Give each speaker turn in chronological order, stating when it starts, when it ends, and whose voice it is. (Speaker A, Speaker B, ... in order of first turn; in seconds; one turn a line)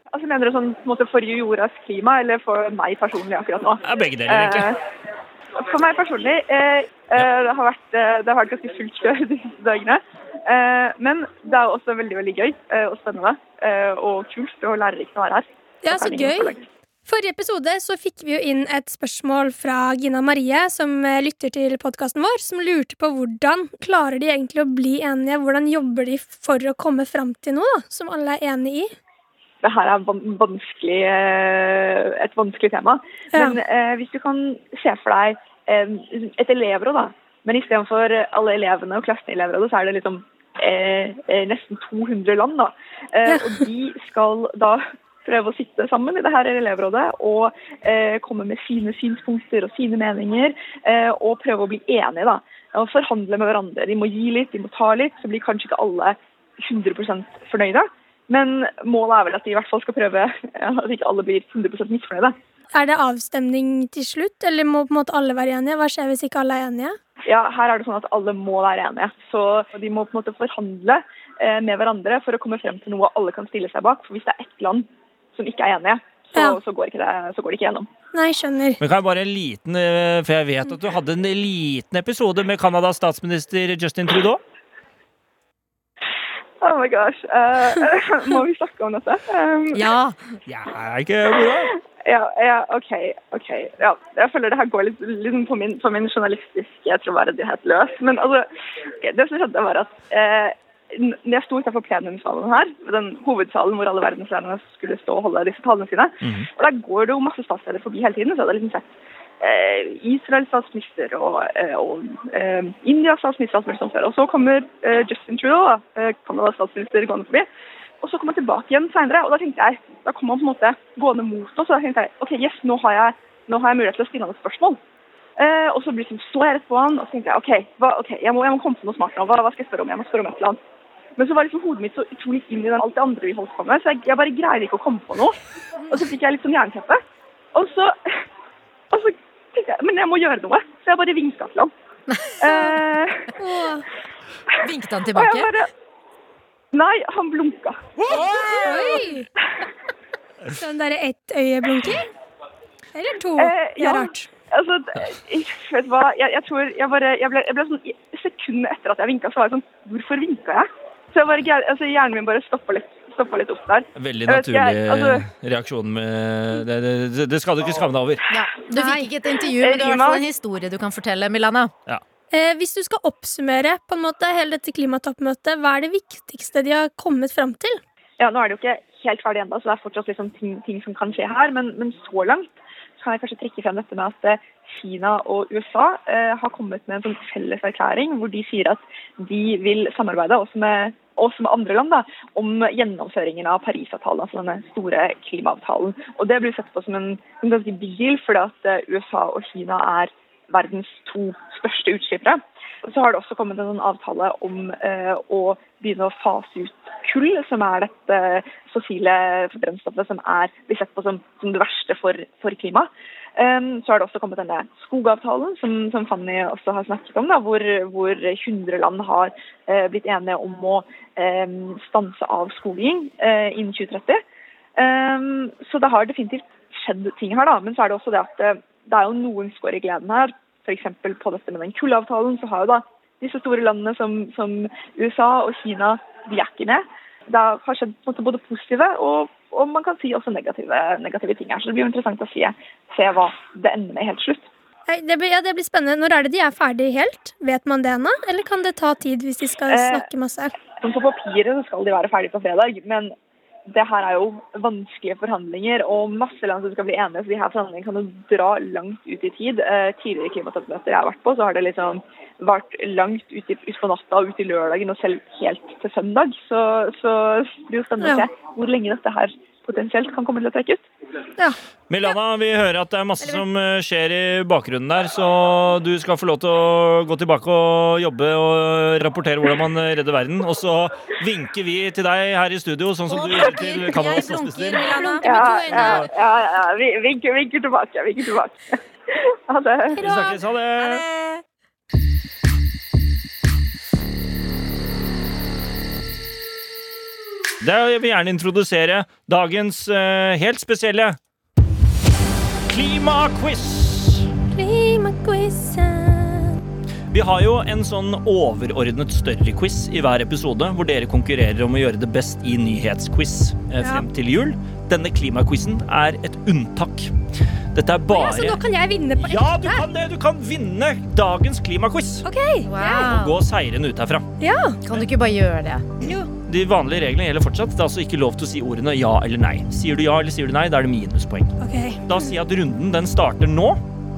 Speaker A: 0.1-4.8
Speaker B: 3.8-4.7
Speaker A: 5.6-16.6
Speaker C: 15.8-16.6
Speaker C: 17.1-28.9
Speaker A: 29.6-62.4
Speaker C: 33.3-33.6
Speaker C: 43.3-43.6
Speaker C: 62.7-67.0
Speaker A: 67.3-77.9
Speaker C: 78.1-78.8
Speaker B: 78.8-84.4
Speaker A: 86.6-89.9
Speaker D: 89.7-90.4
Speaker B: 90.5-91.7
Speaker A: 92.0-98.5
Speaker A: 99.0-117.5
Speaker B: 106.2-106.5
Speaker A: 118.0-124.8
Speaker A: 125.4-130.6
Speaker A: 131.2-135.4
Speaker D: 135.8-136.1
Speaker A: 135.9-137.0
Speaker A: 137.5-138.1
Speaker A: 138.9-141.7
Speaker D: 142.1-142.8
Speaker A: 142.4-143.3
Speaker C: 143.4-143.9
Speaker D: 144.6-145.5
Speaker A: 145.2-145.7
Speaker A: 146.7-147.9
Speaker B: 148.1-148.8
Speaker C: 148.1-149.3
Speaker D: 148.2-149.0
Speaker C: 150.5-152.1
Speaker C: 152.9-154.3
Speaker A: 153.4-165.2
Speaker B: 164.0-168.2
Speaker D: 168.3-171.7
Speaker C: 168.7-169.1
Speaker A: 169.6-170.2
Speaker C: 172.3-177.8
Speaker A: 178.2-224.2
Speaker A: 224.8-244.5
Speaker C: 244.9-250.5
Speaker A: 249.7-250.1
Speaker A: 250.8-253.2
Speaker A: 253.7-270.9
Speaker C: 268.0-268.3
Speaker B: 271.9-284.9
Speaker D: 283.1-286.1
Speaker C: 284.3-286.1
Speaker A: 285.2-290.0
Speaker C: 289.9-290.4
Speaker B: 290.0-291.1
Speaker D: 290.8-291.4
Speaker B: 297.6-301.2
Speaker B: 302.7-304.3
Speaker C: 304.5-306.6
Speaker B: 307.1-317.1
Speaker B: 317.7-318.6
Speaker C: 318.1-319.9
Speaker B: 319.2-322.2
Speaker C: 322.2-323.1
Speaker D: 322.6-323.4
Speaker B: 322.9-324.3
Speaker C: 324.4-324.8
Speaker D: 324.8-326.0
Speaker C: 326.0-326.3
Speaker B: 326.4-331.6
Speaker C: 331.6-332.3
Speaker B: 332.1-333.8